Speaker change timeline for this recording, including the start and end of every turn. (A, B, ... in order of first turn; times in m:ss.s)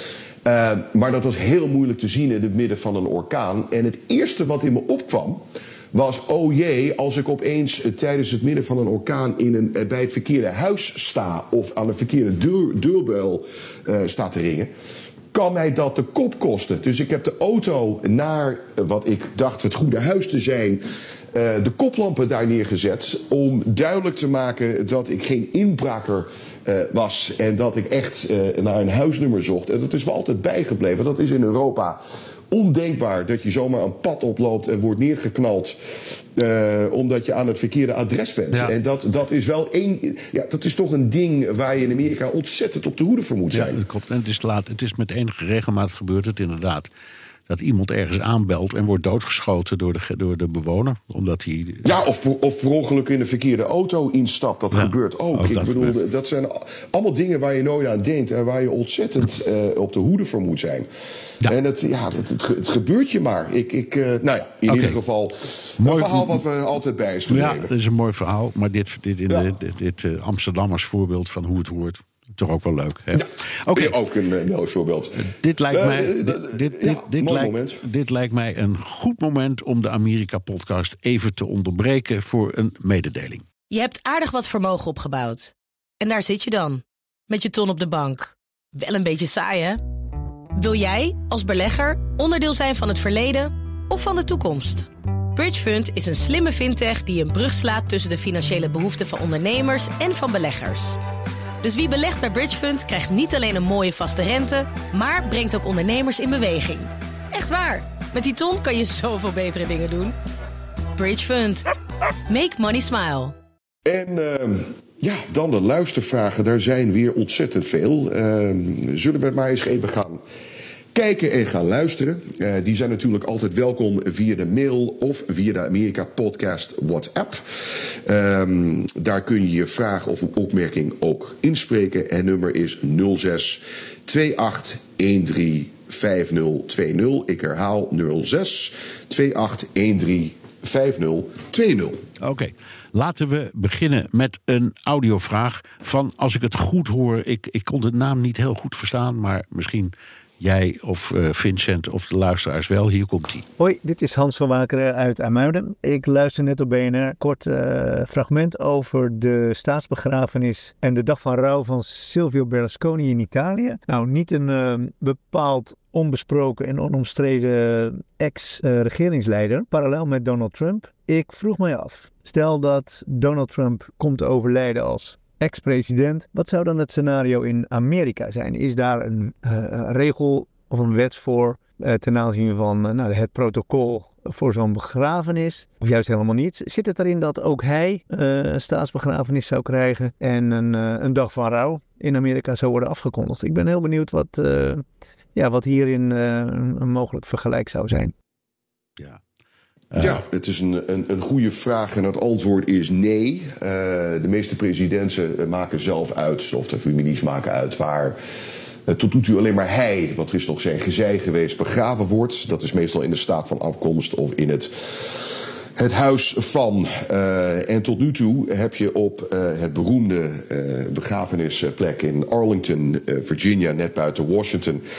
0:00.4-0:14.7 A
0:15.3-0:32.0 A
0:32.5-0:43.8 A
0:43.5-0:46.9 B
0:47.5-0:51.9 B
0:51.8-1:00.9 A
0:54.7-0:56.0 B
1:01.4-1:07.7 A
1:04.7-1:05.0 B
1:05.8-1:06.4 B
1:07.3-1:14.0 B
1:13.1-1:17.8 A
1:15.2-1:23.4 B
1:23.7-1:29.8 C
1:30.6-1:41.0 C
1:41.6-1:50.1 C
1:51.0-1:51.6 C
1:52.3-1:53.3 C
1:53.8-2:00.2 A
2:00.9-2:22.0 A
2:22.2-2:33.4 B
2:33.6-3:14.8 D
3:15.4-3:18.1 D
3:19.9-3:20.2 B
3:20.0-3:28.2 A
3:28.8-3:44.8 A